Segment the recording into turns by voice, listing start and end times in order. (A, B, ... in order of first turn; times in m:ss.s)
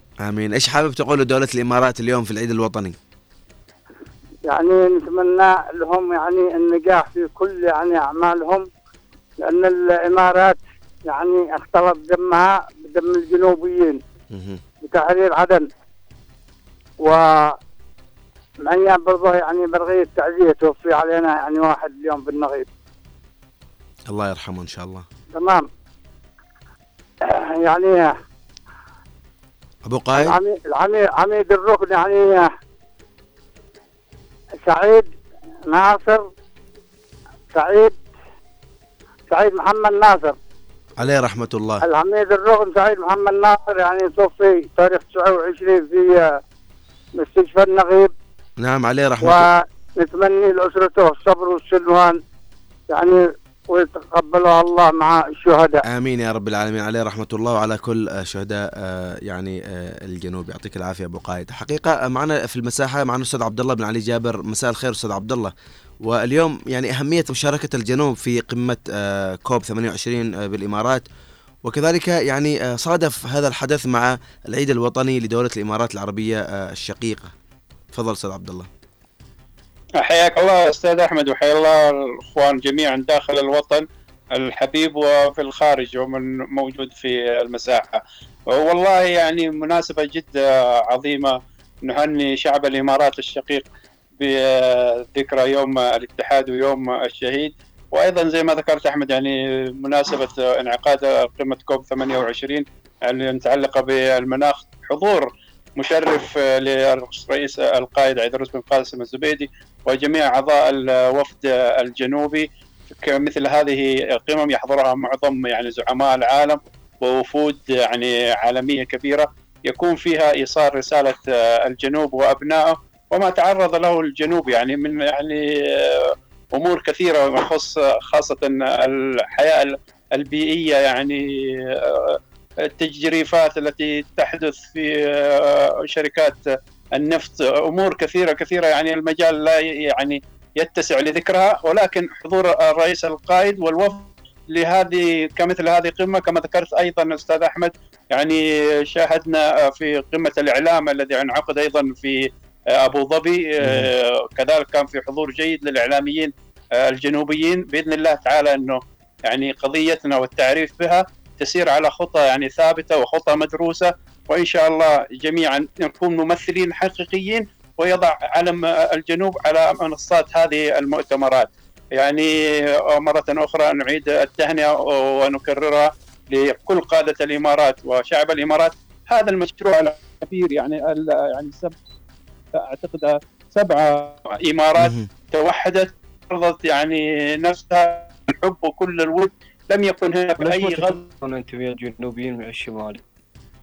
0:00.2-0:03.0 A
0:04.5-0:08.6 B
0:09.4-0:14.0 B
0:14.3-0:14.6 A
0:14.8-0:15.7 B
0:17.0-0:17.6 B
0:18.6-0:22.6 B
0:24.1-0:25.0 A
0:25.3-0:25.6 B
0:27.2-0:28.1 B
0:29.9-0:30.4 A
0:30.2-0:32.5 B
0:34.6-0:35.1 B
0:35.7-0:36.2 B
0:37.5-0:38.0 B
0:39.3-0:40.4 B
0:41.0-0:41.8 A
0:41.8-0:46.4 B
0:47.2-0:48.1 B
0:48.6-0:49.5 A
0:49.2-0:52.2 B
0:52.9-0:55.8 B
0:55.8-1:05.5 A
1:06.0-1:11.0 A
1:11.6-1:17.3 A
1:17.9-1:18.7 A
1:20.0-1:28.0 C
1:28.5-1:33.6 C
1:34.2-2:16.4 C
2:17.0-3:01.7 C
2:33.6-2:33.9 A
3:02.6-3:11.0 C
3:04.8-3:05.1 A
3:10.4-3:13.0 D